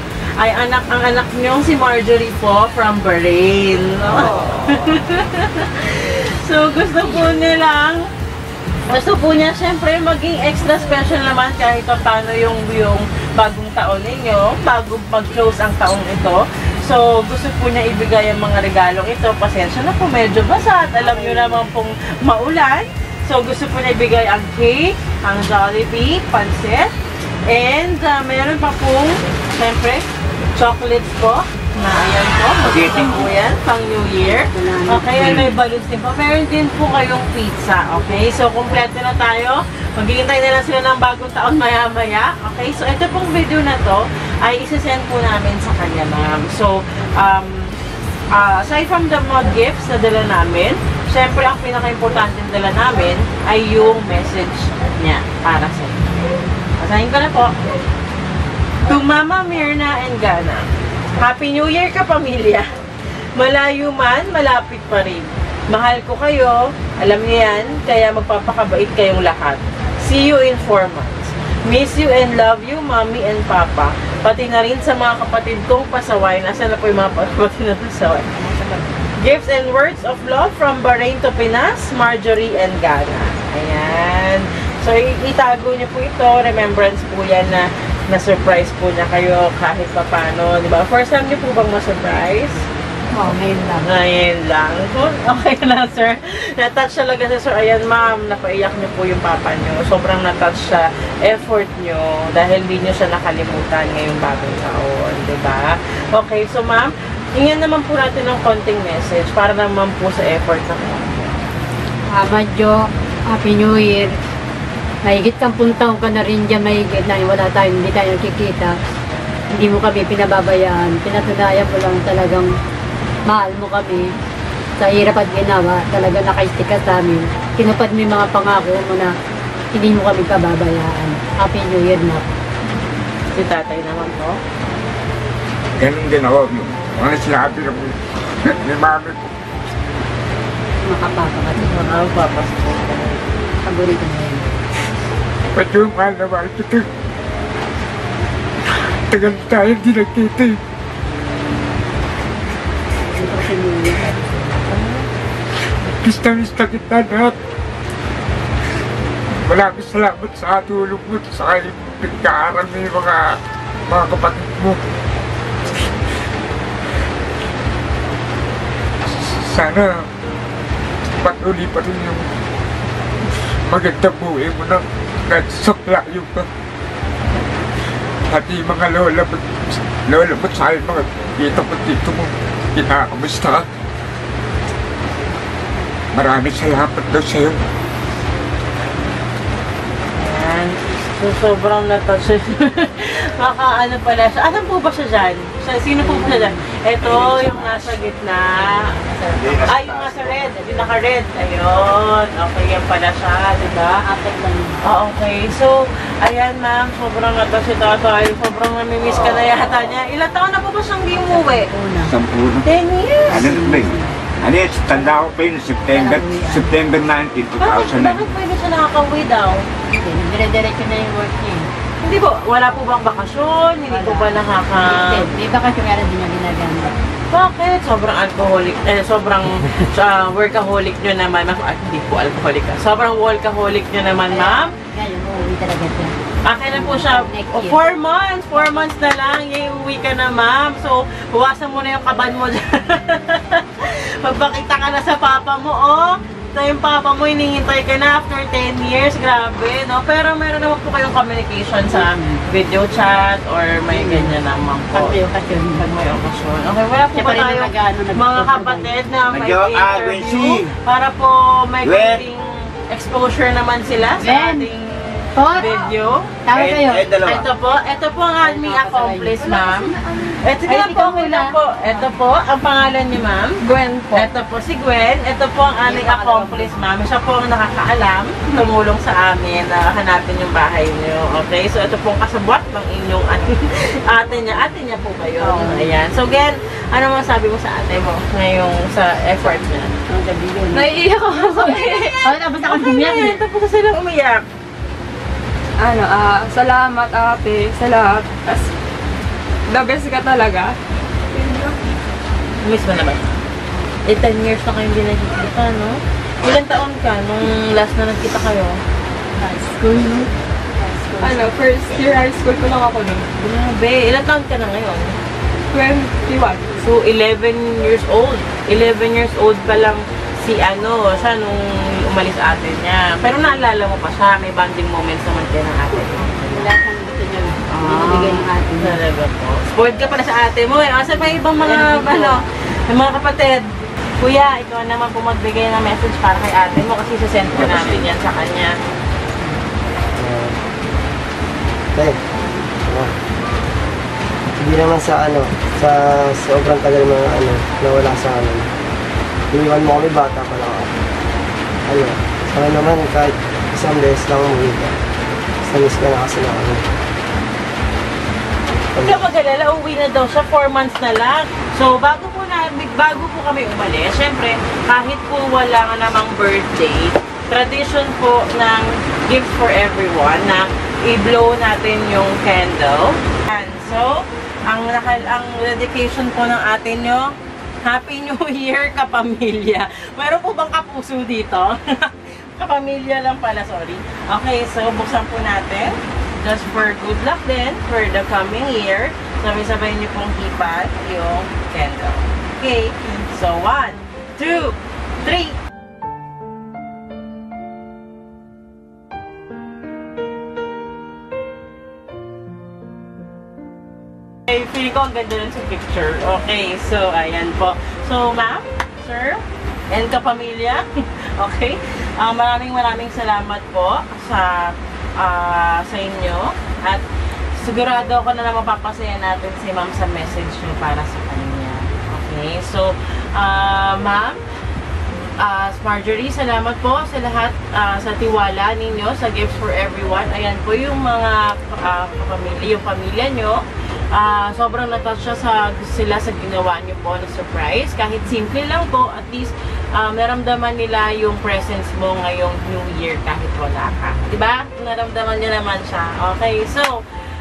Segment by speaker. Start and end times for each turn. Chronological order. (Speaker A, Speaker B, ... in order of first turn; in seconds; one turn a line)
Speaker A: 0.4-8.1
Speaker A: 8.9-26.9
Speaker B: 21.0-21.6
Speaker A: 27.5-47.8
Speaker C: 32.6-33.3
Speaker B: 34.2-35.5
Speaker A: 48.3-56.1
Speaker A: 56.8-57.5
Speaker A: 58.9-62.7
Speaker A: 63.4-78.3
Speaker B: 78.5-78.9
Speaker A: 79.2-92.6
Speaker B: 93.1-93.9
Speaker A: 93.8-111.4
Speaker B: 112.2-112.7
Speaker B: 113.3-114.1
Speaker B: 115.0-118.7
Speaker B: 119.5-122.5
Speaker B: 123.3-124.0
Speaker B: 124.8-129.1
Speaker B: 129.7-132.2
Speaker A: 133.3-134.4
Speaker D: 135.8-139.3
Speaker B: 140.8-141.9
Speaker A: 141.6-143.2
Speaker B: 143.6-144.4
Speaker D: 145.5-146.8
Speaker D: 149.1-150.6
Speaker B: 153.1-154.6
Speaker A: 154.7-155.0
Speaker D: 155.8-157.3
Speaker D: 159.4-163.2
Speaker D: 163.9-164.8
Speaker D: 169.1-170.0
Speaker D: 171.2-172.2
Speaker D: 173.7-176.4
Speaker D: 178.3-179.4
Speaker D: 180.0-183.6
Speaker D: 186.1-187.6
Speaker A: 190.2-198.7
Speaker B: 196.0-197.9
Speaker B: 198.7-199.8
Speaker C: 199.3-200.5
Speaker A: 199.7-204.1
Speaker B: 200.4-200.9
Speaker B: 204.1-204.8
Speaker A: 204.8-211.7
Speaker B: 211.2-212.1
Speaker C: 212.0-212.7
Speaker A: 212.6-213.5
Speaker C: 213.3-218.3
Speaker B: 213.3-214.3
Speaker B: 215.9-216.7
Speaker A: 217.6-219.6
Speaker B: 219.9-221.7
Speaker A: 222.0-225.3
Speaker B: 223.9-226.9
Speaker A: 227.3-234.7
Speaker B: 234.3-236.1
Speaker A: 236.4-266.3
Speaker B: 236.7-237.9
Speaker B: 253.9-254.3
Speaker B: 254.9-255.8
Speaker B: 257.1-258.8
Speaker C: 259.3-260.7
Speaker C: 261.8-262.2
Speaker B: 264.2-264.7
Speaker B: 265.4-265.8
Speaker B: 266.5-267.1
Speaker C: 266.5-267.5
Speaker A: 267.2-289.9
Speaker B: 268.4-269.4
Speaker E: 269.4-270.4
Speaker B: 270.7-271.5
Speaker E: 273.6-274.2
Speaker B: 275.8-276.8
Speaker B: 285.4-285.9
Speaker B: 290.1-291.0
Speaker E: 290.7-292.3
Speaker A: 291.3-294.4
Speaker B: 292.2-293.4
Speaker E: 295.8-298.7
Speaker E: 299.7-300.8
Speaker E: 301.3-301.8
Speaker A: 302.6-303.3
Speaker A: 304.1-308.8
Speaker B: 309.4-310.0
Speaker E: 309.7-310.3
Speaker B: 310.8-311.4
Speaker E: 311.2-313.3
Speaker A: 313.4-315.1
Speaker E: 315.7-316.6
Speaker A: 316.7-326.7
Speaker B: 326.5-329.0
Speaker A: 327.7-333.6
Speaker B: 331.6-332.4
Speaker A: 334.2-338.7
Speaker C: 337.6-338.1
Speaker F: 340.1-340.6
Speaker F: 342.9-343.1
Speaker F: 344.6-348.7
Speaker F: 349.5-350.9
Speaker F: 351.9-354.9
Speaker F: 355.7-356.8
Speaker F: 358.9-359.2
Speaker A: 359.0-395.6
Speaker A: 404.5-410.8
Speaker A: 411.4-417.0
Speaker A: 417.6-424.4
Speaker A: 425.4-433.6
Speaker A: 434.1-447.0